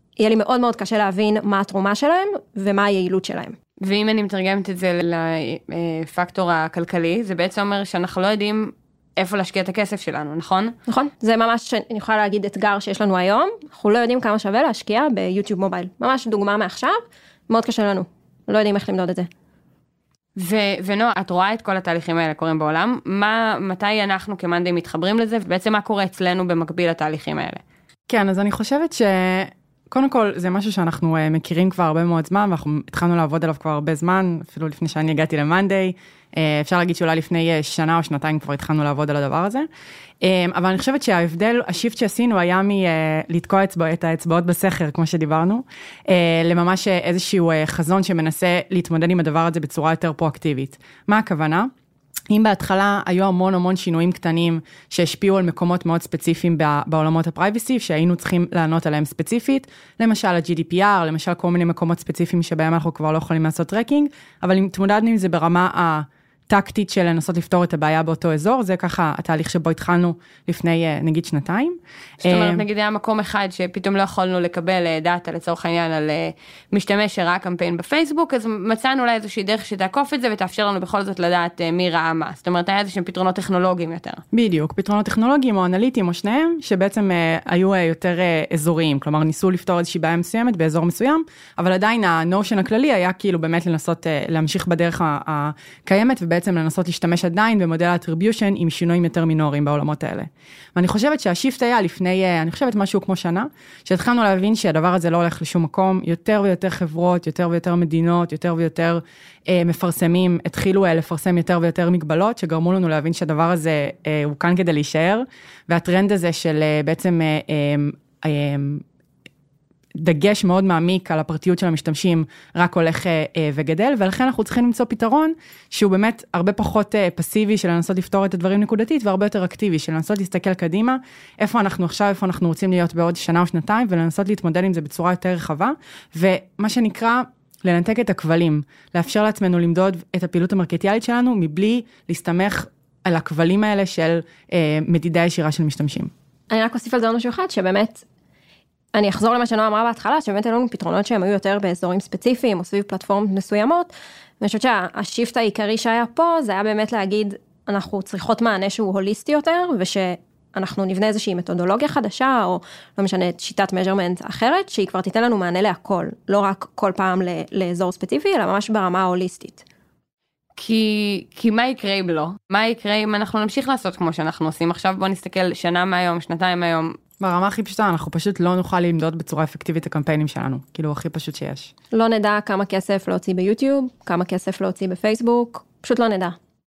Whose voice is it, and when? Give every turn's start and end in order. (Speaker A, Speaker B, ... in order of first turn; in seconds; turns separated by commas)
Speaker A: 0.2-3.5, Speaker B: 3.8-10.8, Speaker A: 10.9-19.3, Speaker B: 20.4-27.6, Speaker C: 28.1-39.7, Speaker C: 40.2-51.7, Speaker C: 52.3-72.6, Speaker B: 72.2-84.2, Speaker C: 84.3-118.8, Speaker C: 120.0-146.1, Speaker A: 146.5-148.0, Speaker A: 148.9-169.6, Speaker B: 170.6-177.0, Speaker C: 177.2-181.7, Speaker A: 181.9-186.4